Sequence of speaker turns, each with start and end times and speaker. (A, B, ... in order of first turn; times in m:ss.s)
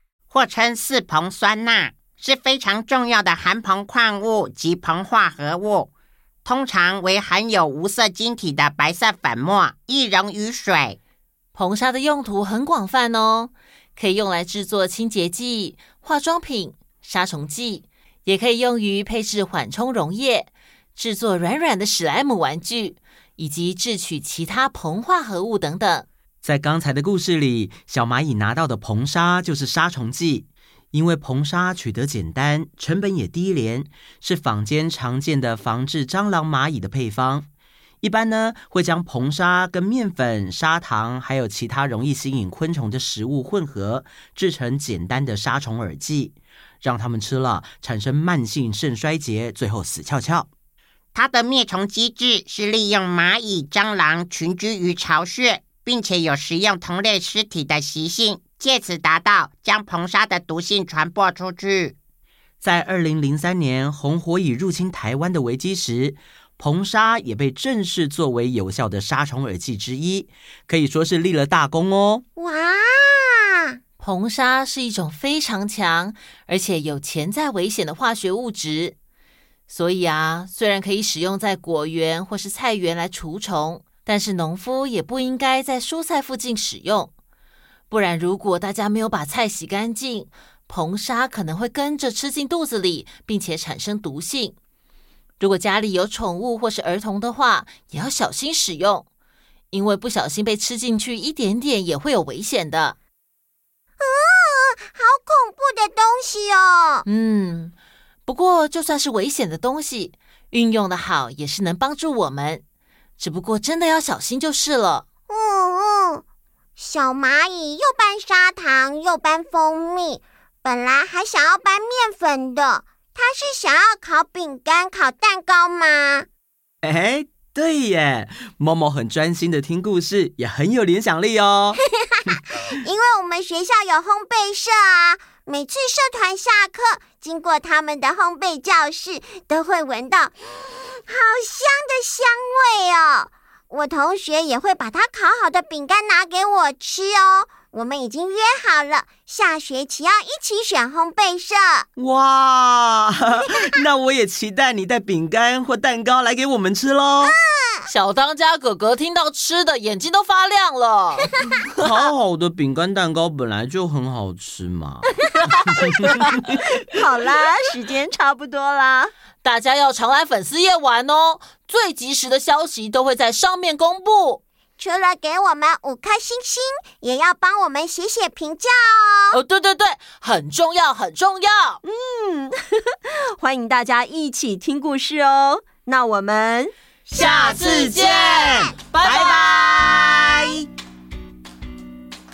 0:00.3-0:05.9 A
0:06.4-0:11.0 A
0:11.5-0:26.0 B
0:26.4-0:37.5 C
0:38.0-0:50.5 C
0:51.1-1:01.9 A
1:02.6-1:12.2 C
1:12.4-1:13.8 D
1:14.0-1:18.9 B
1:19.7-1:27.1 B
1:27.9-1:34.5 B
1:35.4-1:39.0 B
1:39.7-1:43.0 B
1:44.0-1:47.0 D
1:47.0-1:47.7 B
1:48.2-1:52.6 B
1:53.2-1:55.0 B
1:55.3-1:56.2 D
1:56.8-2:06.3 D
2:06.8-2:11.8 C
2:11.8-2:31.9 D
2:32.0-2:37.3 C
2:37.2-2:37.9 D
2:37.9-2:41.8 B
2:41.7-2:46.6 C
2:46.8-2:49.1 E
2:49.4-2:54.4 B
2:54.8-2:59.4 D
2:59.3-3:01.8 B
3:01.8-3:06.7 E
3:07.1-3:09.9 B
3:07.1-3:07.5 D
3:07.2-3:10.6 C